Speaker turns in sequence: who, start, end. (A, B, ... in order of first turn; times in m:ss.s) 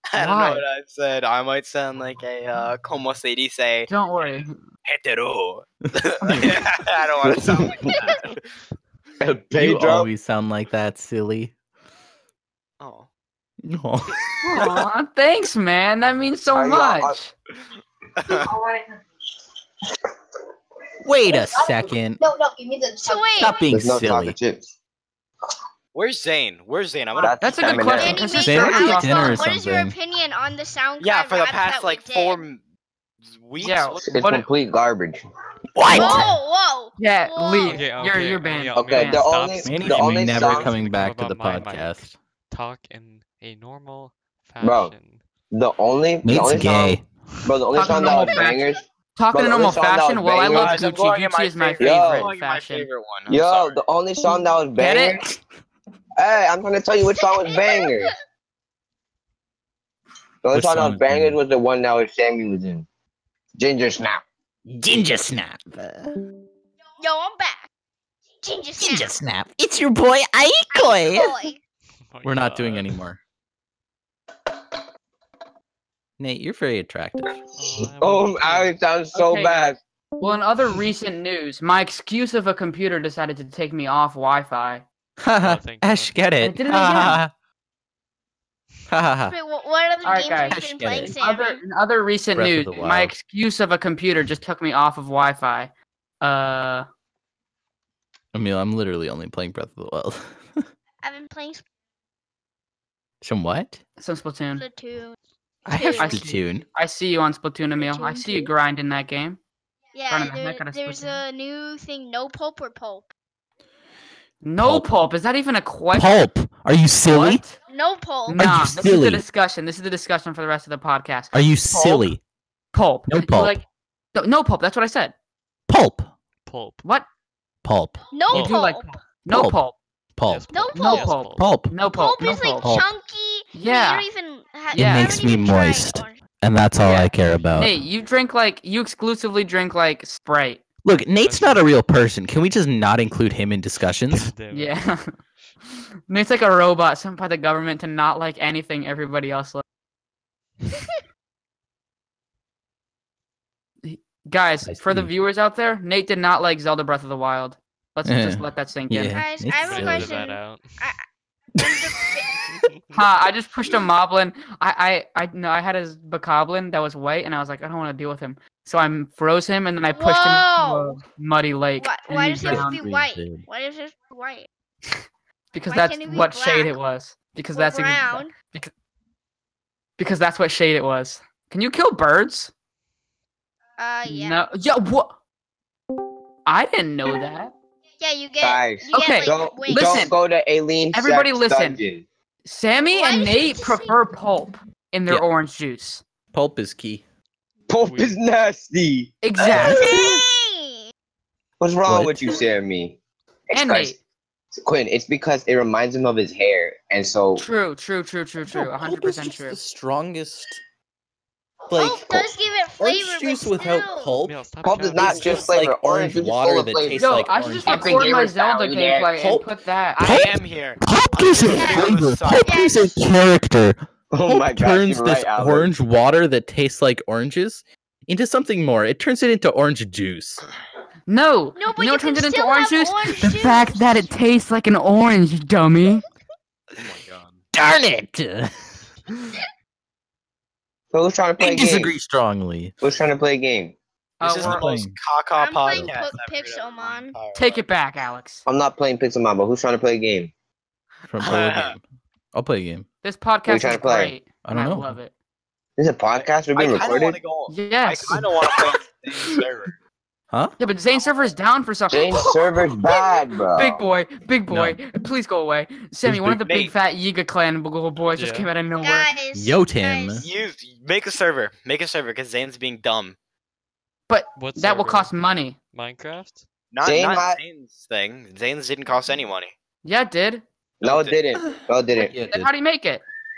0:00.1-0:03.9 A
0:00.2-0:00.6 B
0:03.9-0:04.6 B
0:04.8-0:08.4 A
0:06.2-0:06.5 B
0:06.2-0:06.6 C
0:07.2-0:08.0 D
0:07.8-0:08.2 E
0:09.2-0:10.1 D
0:09.6-0:11.5 C
0:12.8-0:13.1 A
0:13.6-0:14.2 C
0:14.4-0:17.3 B
0:16.5-0:17.2 D
0:18.2-0:18.5 A
0:18.3-0:18.8 D
0:21.0-0:22.2 C
0:22.3-0:23.0 D
0:23.0-0:23.6 E
0:23.4-0:24.4 C
0:23.6-0:24.7 D
0:25.9-0:28.0 A
0:27.2-0:28.4 D
0:27.4-0:29.4 B
0:28.0-0:32.4 E
0:28.4-0:30.0 C
0:31.0-0:32.6 A
0:33.3-0:34.3 A
0:33.6-0:34.5 B
0:34.1-0:35.2 D
0:35.8-0:36.4 C
0:35.9-0:37.9 E
0:37.0-0:39.3 B
0:37.7-0:45.2 F
0:38.8-0:40.8 D
0:39.6-0:42.1 C
0:44.6-0:44.9 D
0:45.5-0:48.8 D
0:46.2-0:47.1 C
0:47.7-0:52.9 B
0:49.3-0:50.8 D
0:50.4-0:53.8 A
0:51.8-0:52.3 D
0:53.3-0:55.3 D
0:54.8-0:55.2 B
0:56.2-0:58.1 D
0:57.2-0:58.0 E
1:00.4-1:02.9 D
1:00.5-1:01.4 C
1:03.6-1:04.2 D
1:04.7-1:06.2 C
1:07.0-1:07.7 E
1:08.4-1:09.1 E
1:08.8-1:11.4 C
1:10.7-1:11.6 E
1:12.1-1:13.0 F
1:12.2-1:13.2 C
1:16.2-1:17.3 C
1:17.6-1:18.8 F
1:18.0-1:19.8 D
1:19.1-1:24.8 B
1:25.2-1:27.3 C
1:25.4-1:26.2 F
1:26.4-1:27.2 B
1:28.9-1:29.4 C
1:29.3-1:31.6 E
1:30.0-1:36.9 B
1:30.5-1:31.2 C
1:32.4-1:33.1 C
1:38.3-1:40.6 C
1:41.0-1:41.6 E
1:43.2-1:43.8 C
1:44.0-1:44.6 B
1:44.6-1:45.2 E
1:45.7-1:46.6 C
1:45.7-1:46.2 E
1:46.0-1:49.4 B
1:47.8-1:48.5 E
1:49.9-1:53.1 E
1:50.1-1:51.2 B
1:54.4-1:56.2 B
1:54.6-1:54.9 C
1:55.9-1:57.4 C
1:57.1-1:57.6 B
1:57.7-1:58.4 E
1:58.3-2:02.1 B
1:58.4-1:59.2 C
2:01.3-2:02.2 C
2:02.7-2:05.1 B
2:03.1-2:03.6 C
2:05.7-2:06.1 C
2:06.4-2:06.8 F
2:07.6-2:08.5 C
2:08.1-2:08.9 E
2:08.3-2:09.8 B
2:09.3-2:09.6 C
2:10.2-2:10.5 C
2:10.3-2:11.5 F
2:10.5-2:11.2 E
2:10.7-2:12.6 B
2:11.4-2:11.7 C
2:11.9-2:16.2 E
2:12.6-2:12.9 C
2:13.5-2:14.0 B
2:14.7-2:15.1 B
2:14.7-2:17.7 C
2:16.8-2:20.6 B
2:20.8-2:24.3 C
2:21.2-2:21.8 F
2:24.1-2:24.9 F
2:24.5-2:25.1 B
2:26.1-2:29.6 B
2:33.8-2:39.2 B
2:34.7-2:35.1 C
2:38.0-2:40.2 C
2:39.1-2:41.0 E
2:39.6-2:40.9 F
2:41.6-2:42.4 E
2:41.6-2:41.9 C
2:42.5-2:43.0 F
2:42.9-2:52.8 B
2:49.9-2:51.0 E
2:51.8-2:54.5 E
2:52.4-2:53.4 C
2:55.5-2:58.7 B
2:55.7-2:56.8 E
2:57.6-2:58.3 E
3:00.0-3:02.5 B
3:03.8-3:04.5 E
3:04.1-3:05.2 B
3:06.5-3:07.5 B
3:08.0-3:10.1 E
3:08.4-3:12.0 D
3:08.9-3:10.1 B
3:10.9-3:11.8 B
3:12.4-3:16.0 B
3:12.9-3:14.0 E
3:16.3-3:17.0 C
3:17.7-3:20.2 D
3:17.8-3:18.2 F
3:19.2-3:19.9 B
3:19.6-3:20.9 E
3:19.6-3:20.1 C
3:21.6-3:23.0 D
3:21.9-3:22.4 C
3:23.5-3:24.0 D
3:23.5-3:24.0 B
3:24.6-3:27.4 D
3:27.4-3:29.6 B
3:28.5-3:30.6 C
3:31.7-3:34.4 C
3:31.7-3:34.2 E
3:34.2-3:35.7 F
3:34.6-3:39.1 D
3:34.9-3:38.0 C
3:37.0-3:40.3 B
3:39.2-3:39.5 C
3:40.0-3:42.8 A
3:40.0-3:50.4 C
3:41.5-3:41.9 E
3:42.4-3:42.9 E
3:44.1-3:45.7 D
3:51.1-3:56.0 B
3:51.6-3:54.1 E
3:56.8-3:57.4 A
3:57.5-3:58.5 C
4:00.9-4:01.9 D
4:01.4-4:02.8 C
4:02.8-4:03.8 D
4:04.2-4:04.6 B
4:04.2-4:07.6 A
4:04.4-4:05.0 C
4:05.4-4:07.2 E
4:05.7-4:06.0 C
4:07.3-4:08.4 B
4:08.5-4:10.3 D
4:11.1-4:11.8 C
4:11.2-4:11.8 A
4:12.3-4:12.9 C
4:13.0-4:15.1 B
4:13.5-4:14.1 D
4:14.4-4:15.0 C
4:15.8-4:17.2 D
4:16.1-4:19.7 A
4:17.5-4:18.3 B
4:20.3-4:20.6 C
4:20.6-4:23.0 B
4:21.9-4:23.8 D
4:23.5-4:29.1 B
4:24.5-4:24.8 C
4:26.0-4:26.4 C
4:26.4-4:26.7 A
4:28.2-4:28.5 F
4:28.8-4:30.3 E
4:29.3-4:30.3 C
4:30.2-4:33.2 A
4:34.1-4:35.6 B
4:34.4-4:35.1 F
4:35.7-4:36.4 F
4:36.7-4:39.5 A
4:36.8-4:37.4 D
4:39.8-4:40.4 B
4:40.8-4:41.2 A
4:40.8-4:42.1 D
4:42.0-4:42.5 C
4:42.3-4:43.0 B